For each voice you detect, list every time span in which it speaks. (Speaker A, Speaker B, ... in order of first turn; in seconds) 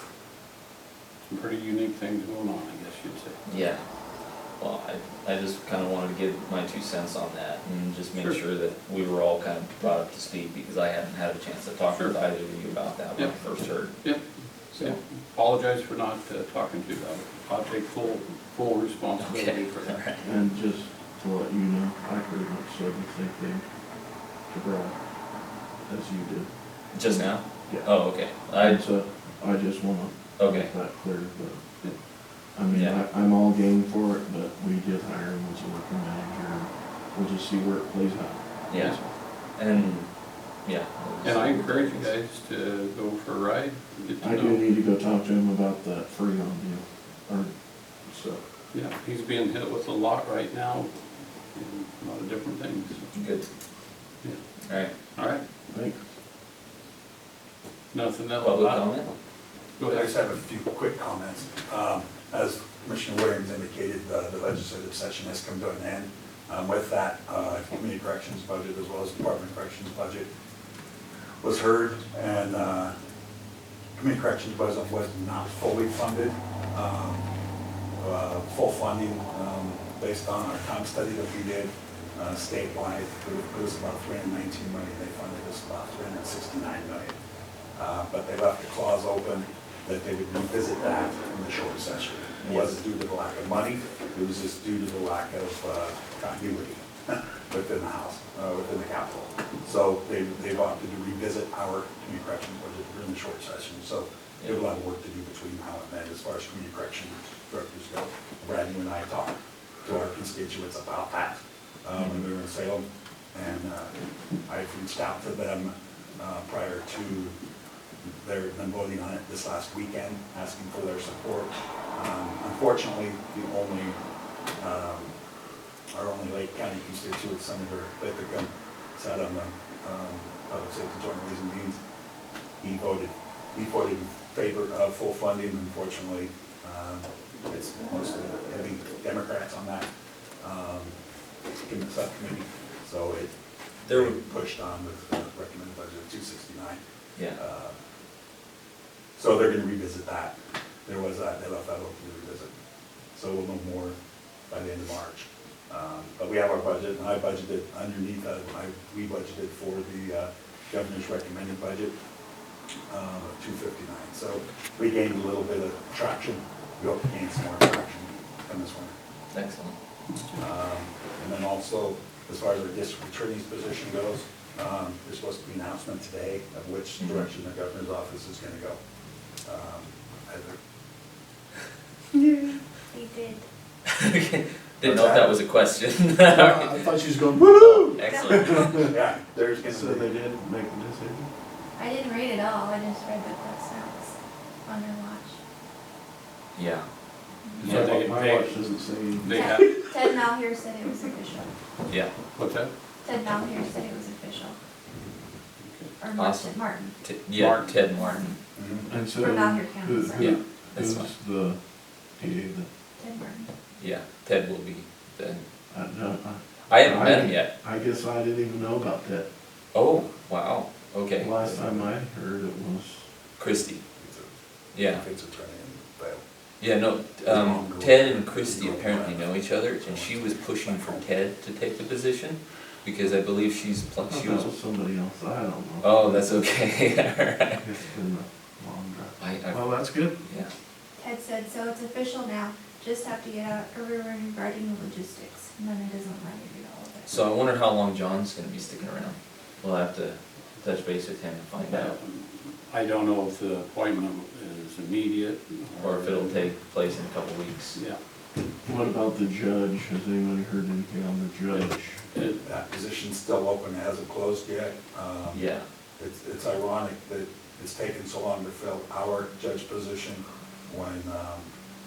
Speaker A: 1.2-3.4, 8.2-8.4, 11.9-12.2, 13.2-20.1, 38.7-39.2, 41.2-44.6, 48.7-53.1, 54.2-55.5, 57.9-59.0, 59.8-60.1, 197.6-199.8, 202.3-202.7, 205.6-205.9, 207.3-207.8, 251.6-256.5, 261.5-262.4
Speaker B: 3.5-3.9, 4.4-14.1, 19.2-20.2, 26.9-28.8, 30.4-30.7, 32.7-33.0, 38.7-42.1, 53.1-53.5, 54.7-54.9, 58.4-59.1, 92.4-92.8, 112.0-112.2, 143.9-144.2, 169.3-169.8, 177.0-177.3, 183.9-186.9, 187.6-188.8, 196.6-196.8, 197.6-197.9, 206.2-208.3, 210.2-211.1, 213.8-215.4, 216.7-217.5, 219.7-221.3, 223.4-223.8, 224.7-225.0, 226.6-234.5, 235.8-237.6, 239.2-239.7, 240.2-240.5, 247.1-252.0, 255.8-257.8, 265.3-265.6
Speaker C: 20.2-23.8, 24.4-25.0, 25.8-31.6, 32.5-38.5, 44.2-48.4, 55.7-56.0, 186.3-188.9, 189.7-191.3, 197.6-199.8, 208.9-212.7, 215.7-219.3, 221.2-223.1, 234.0-236.6, 237.6-240.2, 258.6-262.0
Speaker D: 59.9-70.3, 71.4-72.9, 74.0-77.2, 78.0-87.2, 87.8-113.9, 114.5-117.4, 118.0-124.0, 124.6-125.1, 125.9-131.8, 132.6-139.9, 140.4-140.9, 141.6-143.3, 143.8-146.8, 147.3-147.7, 149.2-150.3, 150.9-152.5, 153.2-154.0, 154.5-161.9, 162.9-168.9, 170.4-178.8, 179.4-180.6, 184.8-185.4, 188.8-190.1, 208.6-208.9, 221.5-221.8, 224.0-224.3, 224.8-226.2, 227.2-231.1, 262.4-265.5, 266.0-271.5
Speaker E: 182.9-183.5, 188.0-188.9, 191.8-195.4, 197.4-197.8, 199.3-201.5, 203.0-204.6, 206.0-207.0, 207.9-208.4, 209.2-210.3, 213.0-213.5, 241.0-247.2